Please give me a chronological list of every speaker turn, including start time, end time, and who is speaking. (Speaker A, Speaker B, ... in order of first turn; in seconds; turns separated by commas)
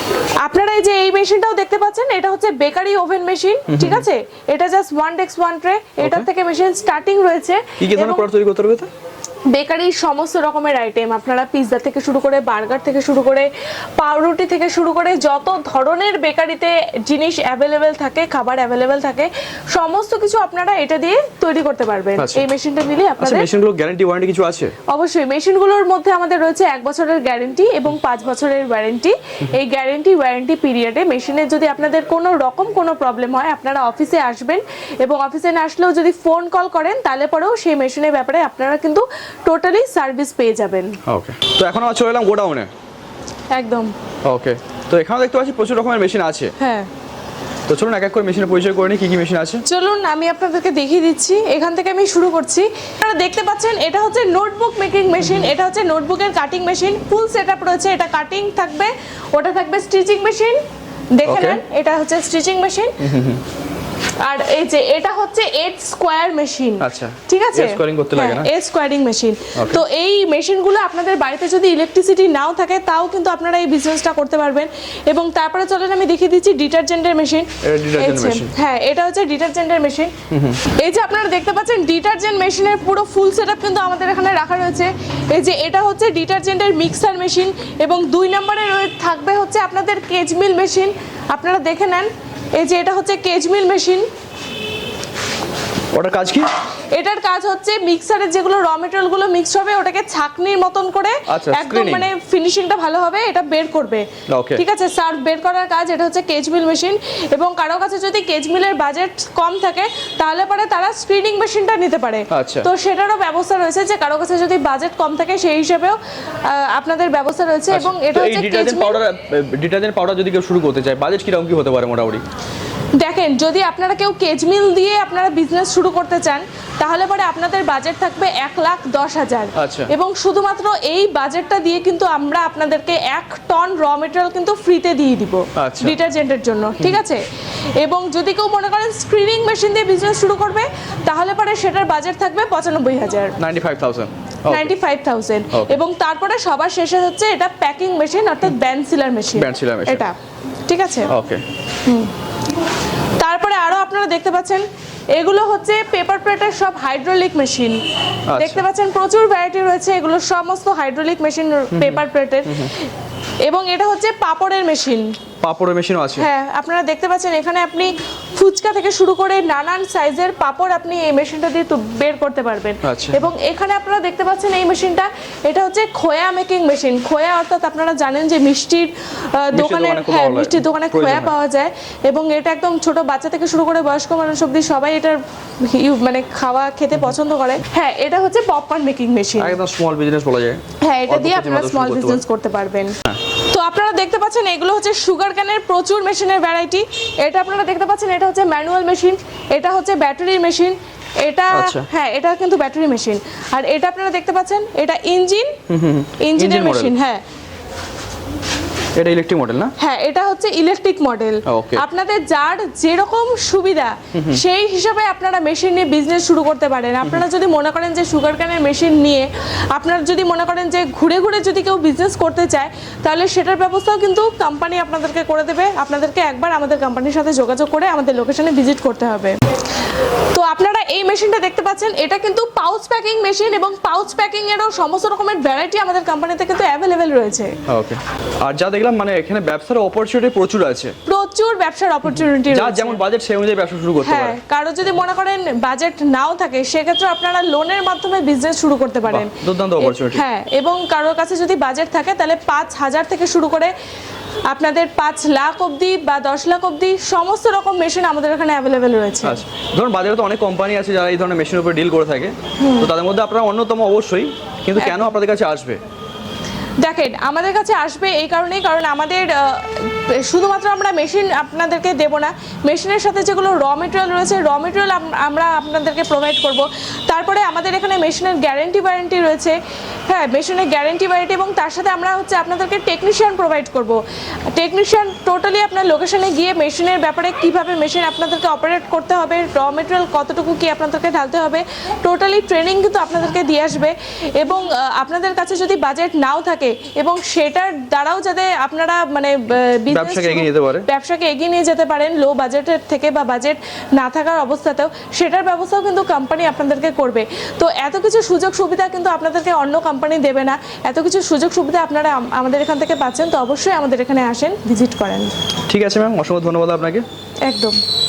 Speaker A: 0.4-8.3, Speaker B: 3.7-4.0, Speaker B: 6.0-6.3, Speaker B: 7.8-8.9, Speaker A: 9.5-23.5, Speaker B: 22.1-22.5, Speaker B: 23.2-24.7, Speaker A: 24.9-41.0, Speaker B: 41.0-42.7, Speaker A: 43.5-43.9, Speaker B: 44.2-46.5, Speaker A: 46.6-46.9, Speaker B: 47.7-49.6, Speaker A: 49.6-60.6, Speaker A: 61.1-63.0, Speaker B: 61.2-61.6, Speaker B: 63.0-63.4, Speaker A: 64.2-80.1, Speaker B: 66.8-68.5, Speaker B: 69.5-69.8, Speaker B: 77.6-78.5, Speaker B: 80.3-80.6, Speaker A: 80.7-94.1, Speaker B: 95.9-96.5, Speaker A: 96.9-119.0, Speaker B: 101.3-102.1, Speaker B: 104.3-104.6, Speaker B: 112.3-112.7, Speaker B: 117.7-122.2, Speaker A: 123.0-137.2, Speaker B: 129.6-129.9, Speaker B: 135.6-136.0, Speaker A: 137.8-143.3, Speaker B: 143.4-144.7, Speaker A: 144.5-150.2, Speaker B: 145.5-145.8, Speaker B: 149.3-150.1, Speaker A: 150.7-151.1, Speaker B: 151.1-151.4, Speaker A: 151.8-152.1, Speaker A: 153.2-157.8, Speaker B: 158.3-158.6, Speaker A: 158.3-162.9, Speaker B: 161.7-162.7, Speaker A: 163.4-165.2, Speaker B: 165.4-166.3, Speaker A: 166.2-189.6, Speaker B: 172.8-173.2, Speaker B: 179.5-181.3, Speaker B: 189.4-192.2, Speaker A: 190.8-205.6, Speaker B: 201.5-201.9, Speaker B: 205.7-206.9, Speaker A: 206.2-207.2, Speaker B: 208.9-209.7, Speaker A: 209.8-237.6, Speaker B: 211.4-211.8, Speaker B: 214.1-214.4, Speaker B: 237.7-240.9, Speaker A: 241.1-243.0, Speaker B: 242.4-244.4, Speaker A: 244.0-253.7, Speaker B: 249.1-250.2, Speaker A: 254.5-259.4, Speaker B: 259.2-265.8, Speaker A: 262.6-262.9, Speaker A: 264.8-265.1, Speaker A: 266.8-279.6, Speaker A: 280.1-315.3, Speaker B: 299.9-300.9, Speaker B: 315.7-317.1, Speaker A: 317.4-317.8